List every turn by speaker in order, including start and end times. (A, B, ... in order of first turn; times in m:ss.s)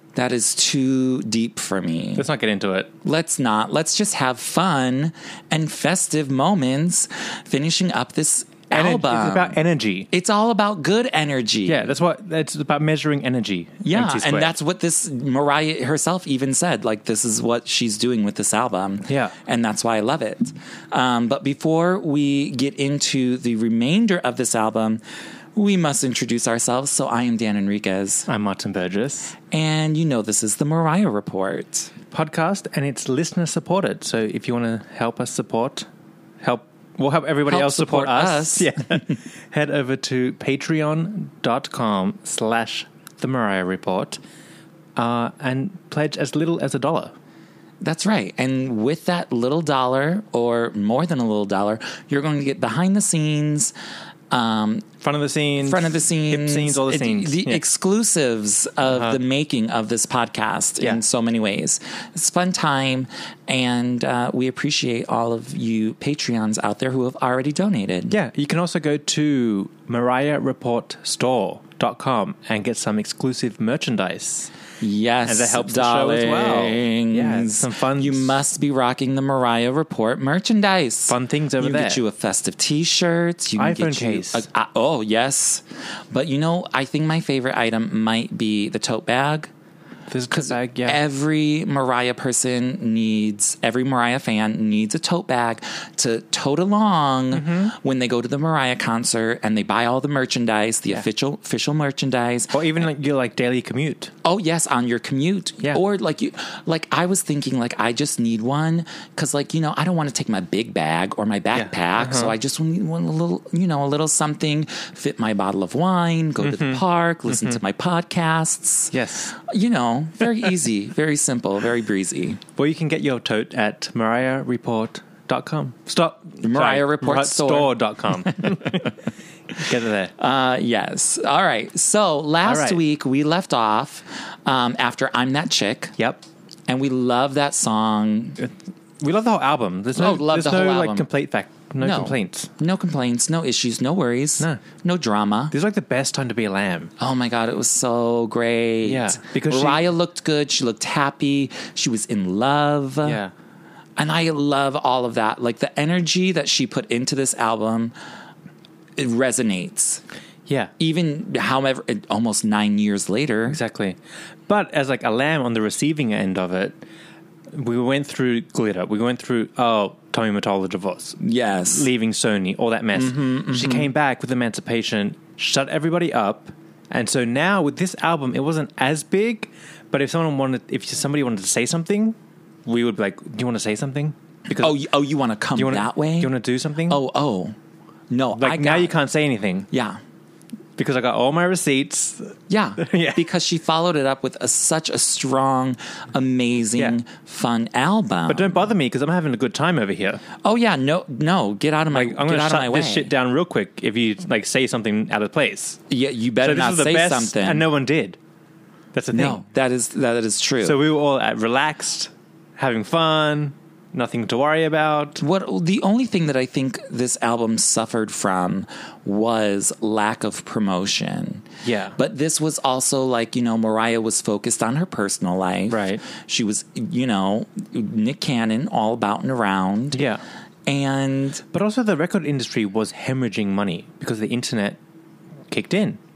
0:00.1-0:02.3 A
0:02.2-0:02.9 B
0:03.0-0:09.6 A
0:08.7-0:10.1 B
0:10.1-0:11.9 A
0:11.6-0:14.6 B
0:13.8-0:25.0 A
0:19.1-0:19.3 B
0:25.5-0:28.3 A
0:28.3-0:29.3 B
0:29.5-0:31.9 A
0:32.1-0:35.9 B
0:36.4-0:44.2 B
0:37.5-0:39.0 A
0:45.0-0:47.1 B
0:47.8-0:53.7 A
0:54.3-0:54.9 A
0:55.0-0:57.6 B
0:55.6-1:08.2 A
0:58.9-0:59.2 B
1:08.1-1:14.5 B
1:14.8-1:29.5 A
1:15.2-1:18.4 B
1:21.1-1:22.0 B
1:23.6-1:24.4 B
1:30.1-1:31.0 B
1:30.3-1:42.8 A
1:37.3-1:37.7 B
1:42.5-1:44.1 B
1:44.2-2:02.4 A
1:51.5-1:52.3 B
1:56.4-1:57.6 B
1:58.9-1:59.3 B
2:02.6-2:08.9 B
2:06.4-2:08.8 A
2:09.5-2:10.1 B
2:10.2-2:16.0 A
2:12.4-2:12.8 B
2:16.0-2:16.2 B
2:16.7-2:18.4 A
2:18.4-2:22.5 B
2:20.0-2:21.1 A
2:21.8-2:25.5 A
2:25.5-2:26.9 B
2:27.0-2:33.2 A
2:28.8-2:29.8 B
2:33.0-2:33.3 B
2:34.0-2:37.9 A
2:39.0-2:40.0 A
2:40.5-2:40.7 B
2:40.8-2:43.6 A
2:43.5-2:46.8 B
2:47.5-3:04.8 B
2:51.2-2:51.9 A
2:52.9-2:53.9 A
3:04.6-3:06.3 A
3:05.5-3:07.0 B
3:06.9-3:07.6 A
3:08.1-3:08.9 A
3:08.4-3:09.7 B
3:09.7-3:10.0 A
3:10.8-3:13.2 B
3:12.5-3:18.6 A
3:18.3-3:20.2 B
3:20.4-3:23.1 A
3:21.9-3:25.8 B
3:25.9-3:27.7 A
3:26.4-3:28.2 B
3:28.9-3:29.4 B
3:29.1-3:30.8 A
3:30.6-3:35.2 B
3:35.2-3:41.4 A
3:41.6-3:42.0 B
3:42.0-3:50.0 A
3:45.7-3:46.0 B
3:49.9-3:50.2 B
3:50.6-3:51.4 A
3:51.5-3:54.8 B
3:55.5-3:56.0 B